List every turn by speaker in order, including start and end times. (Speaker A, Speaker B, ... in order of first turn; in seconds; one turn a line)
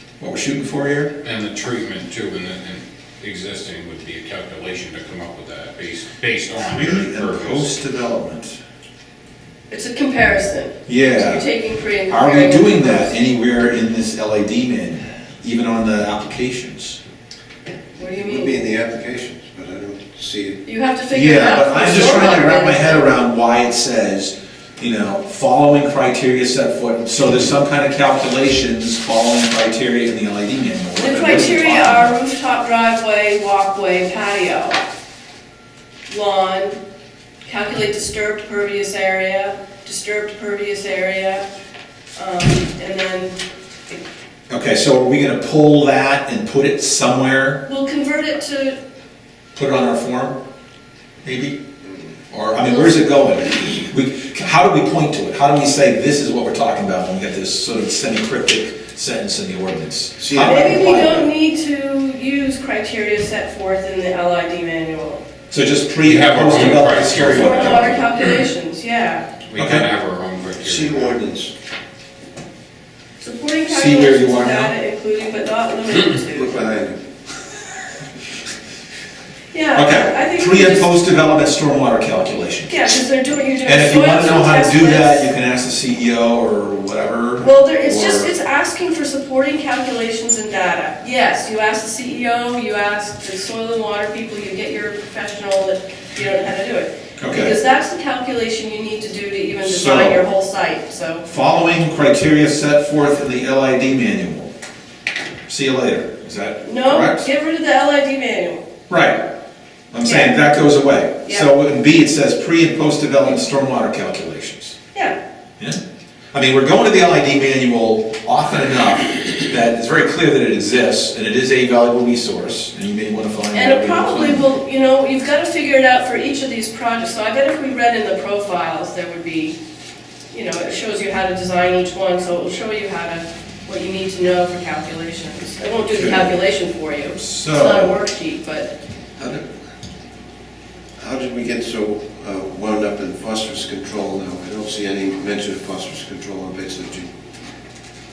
Speaker A: 0.2-1.1
Speaker B: 1.2-7.7
Speaker A: 6.6-8.6
Speaker C: 9.7-13.2
Speaker A: 10.9-11.5
Speaker A: 12.1-17.0
Speaker C: 18.0-18.6
Speaker D: 18.0-20.6
Speaker C: 20.6-23.1
Speaker A: 21.1-32.1
Speaker C: 30.9-34.8
Speaker C: 36.1-36.8
Speaker C: 37.5-41.5
Speaker C: 42.1-43.4
Speaker A: 44.5-47.6
Speaker C: 47.6-48.8
Speaker A: 49.5-50.4
Speaker A: 51.2-51.6
Speaker A: 52.3-61.2
Speaker C: 52.6-53.7
Speaker D: 60.2-61.3
Speaker C: 60.4-65.2
Speaker A: 65.5-68.0
Speaker B: 66.0-68.3
Speaker C: 67.3-69.3
Speaker B: 69.4-71.2
Speaker A: 69.5-69.8
Speaker D: 70.6-71.5
Speaker C: 73.2-76.7
Speaker A: 73.7-74.7
Speaker D: 76.3-77.0
Speaker C: 79.5-81.5
Speaker A: 79.7-82.9
Speaker C: 82.7-85.3
Speaker A: 83.6-88.3
Speaker C: 87.4-101.2
Speaker A: 97.2-97.5
Speaker A: 99.6-100.2
Speaker A: 101.2-104.5
Speaker A: 105.5-107.2
Speaker C: 106.6-108.6
Speaker A: 108.9-109.2
Speaker A: 109.9-114.8
Speaker C: 110.0-110.3
Speaker A: 116.3-124.5
Speaker C: 123.5-129.6
Speaker C: 130.3-138.7
Speaker A: 135.9-136.3
Speaker A: 137.2-138.0
Speaker D: 139.2-139.4
Speaker D: 141.0-147.1